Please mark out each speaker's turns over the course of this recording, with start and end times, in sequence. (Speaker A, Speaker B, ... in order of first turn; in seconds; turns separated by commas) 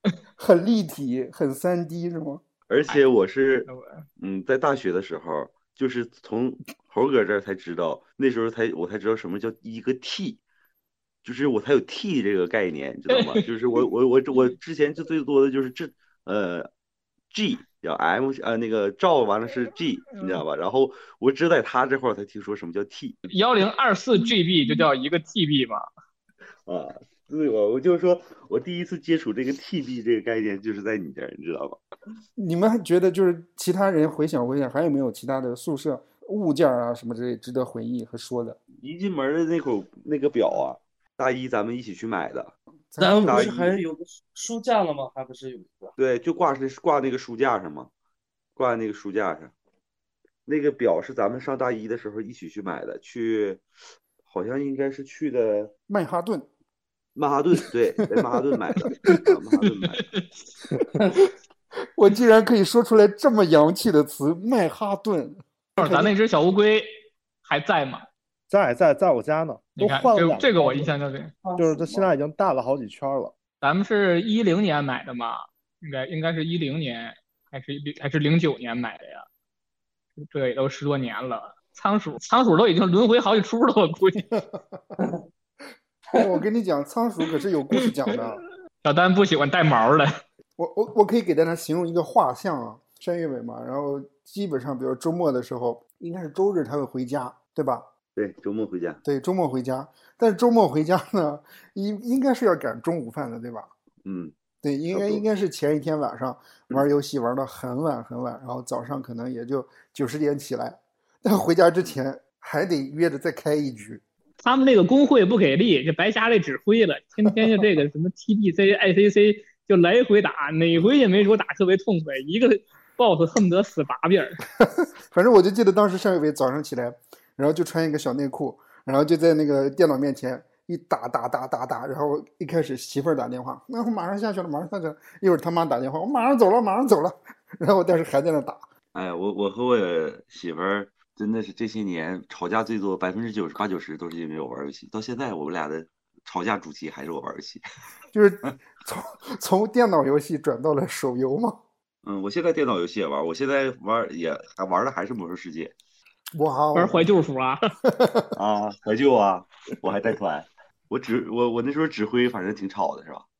Speaker A: 0.4-2.4, Speaker B: 2.7-10.4, Speaker C: 3.7-4.0, Speaker B: 11.2-16.7, Speaker C: 13.1-13.4, Speaker B: 17.3-23.2, Speaker C: 23.3-25.9, Speaker B: 26.6-31.8, Speaker A: 32.4-38.6, Speaker B: 38.8-42.5, Speaker A: 42.9-43.5, Speaker D: 43.0-45.9, Speaker B: 43.2-43.8, Speaker B: 46.0-47.9, Speaker B: 48.5-49.5, Speaker B: 50.5-53.6, Speaker B: 54.2-55.7, Speaker A: 55.9-56.5, Speaker B: 57.1-60.0, Speaker A: 58.8-59.3, Speaker A: 62.0-66.1, Speaker C: 65.8-66.9, Speaker C: 67.4-68.0, Speaker E: 68.5-70.9, Speaker C: 69.8-71.3, Speaker D: 71.4-72.1, Speaker E: 71.6-73.3, Speaker C: 73.6-79.2, Speaker C: 80.2-84.3, Speaker A: 84.3-84.8, Speaker A: 86.1-88.4, Speaker C: 88.8-90.2, Speaker A: 90.6-97.9, Speaker B: 98.2-99.0, Speaker A: 99.0-103.7, Speaker B: 104.0-104.3, Speaker A: 104.6-114.0, Speaker B: 104.9-105.2, Speaker C: 114.4-124.4, Speaker A: 124.6-138.7, Speaker B: 138.9-147.6, Speaker A: 148.1-151.6, Speaker B: 152.0-155.7, Speaker A: 156.3-157.1, Speaker C: 156.7-157.6, Speaker A: 157.8-158.3, Speaker B: 158.3-163.2